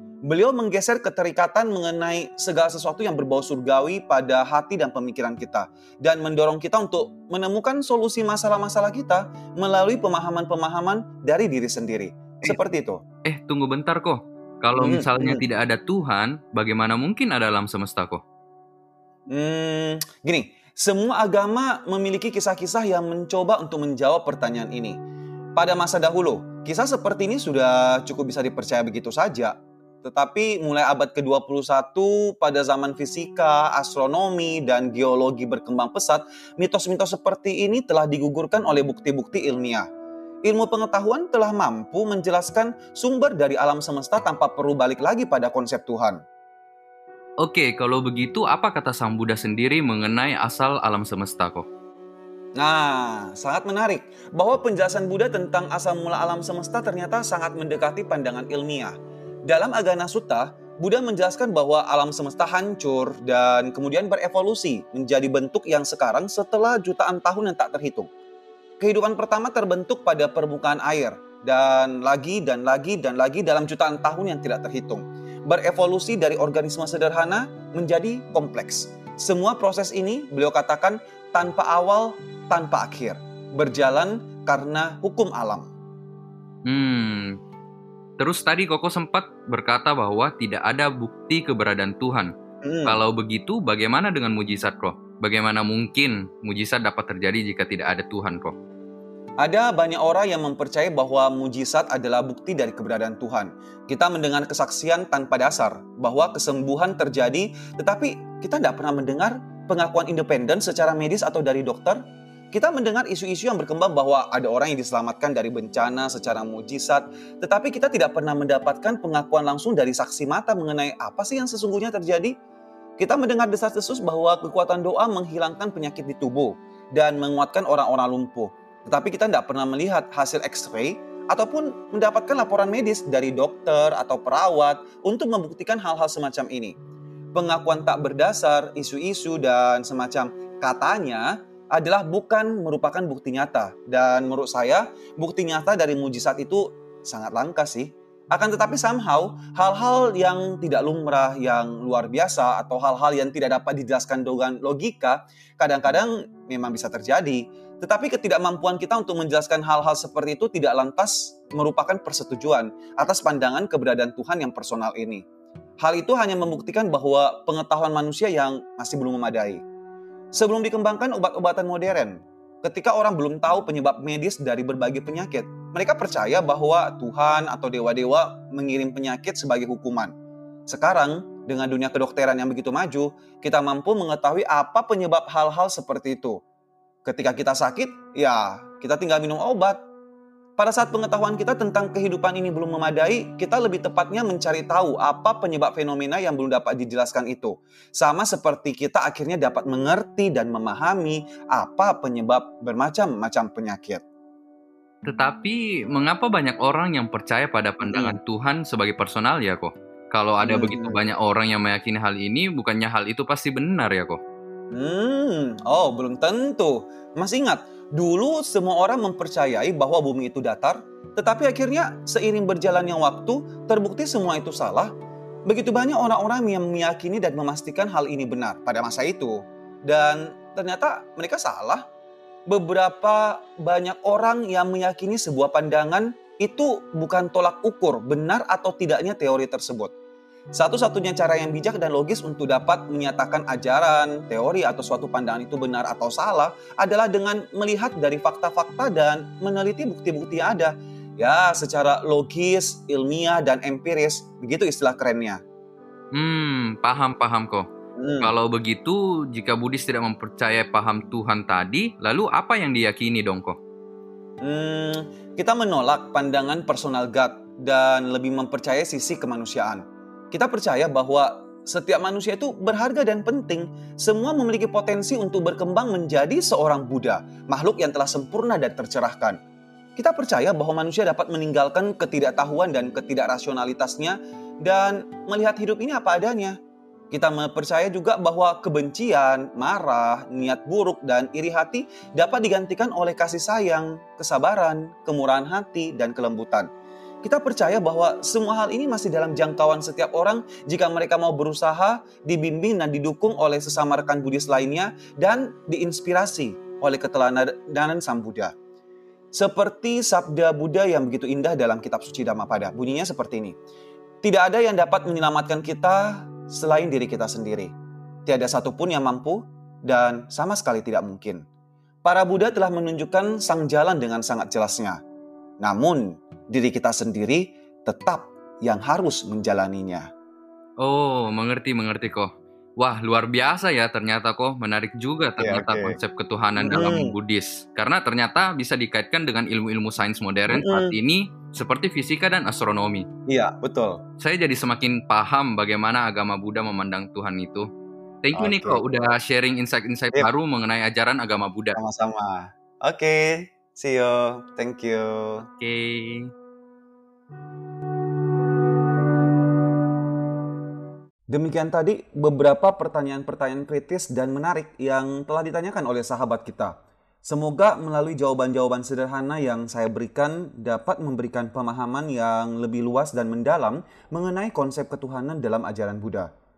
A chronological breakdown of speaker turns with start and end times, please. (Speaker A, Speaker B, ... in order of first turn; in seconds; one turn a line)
Speaker A: 0.2-13.0
Speaker B: 13.2-18.2
Speaker A: 14.8-15.4
Speaker A: 19.3-25.0
Speaker A: 25.6-39.8
Speaker A: 40.5-46.2
Speaker B: 47.4-51.6
Speaker A: 52.6-58.9
Speaker A: 59.5-68.1
Speaker A: 68.8-85.7
Speaker B: 86.7-87.3
Speaker B: 88.2-92.3
Speaker A: 92.6-93.0
Speaker B: 92.8-98.5
Speaker A: 99.4-112.0
Speaker A: 112.5-122.3
Speaker A: 123.0-136.8
Speaker A: 137.3-165.2
Speaker A: 165.8-169.6
Speaker A: 170.3-180.1
Speaker A: 180.7-186.4
Speaker A: 187.0-189.8
Speaker A: 190.6-204.0
Speaker B: 205.1-214.2
Speaker A: 207.8-208.2
Speaker A: 210.4-211.0
Speaker A: 214.7-224.9
Speaker A: 225.5-231.8
Speaker A: 232.5-239.9
Speaker A: 240.6-255.4
Speaker B: 256.1-257.6
Speaker A: 258.0-258.3
Speaker B: 258.2-263.6
Speaker A: 264.4-279.4
Speaker A: 279.9-286.6
Speaker A: 287.1-296.7
Speaker A: 297.2-308.5
Speaker A: 309.3-313.6
Speaker A: 314.2-317.7
Speaker A: 318.2-321.4
Speaker A: 322.0-325.0
Speaker A: 325.6-330.1
Speaker B: 330.8-332.3
Speaker B: 332.8-343.1
Speaker A: 335.4-336.0
Speaker A: 336.6-337.1
Speaker A: 340.5-341.0
Speaker A: 343.3-344.0
Speaker B: 344.2-347.7
Speaker B: 348.2-351.8
Speaker A: 348.3-349.1
Speaker A: 351.7-355.4
Speaker B: 355.4-356.3
Speaker A: 361.3-376.3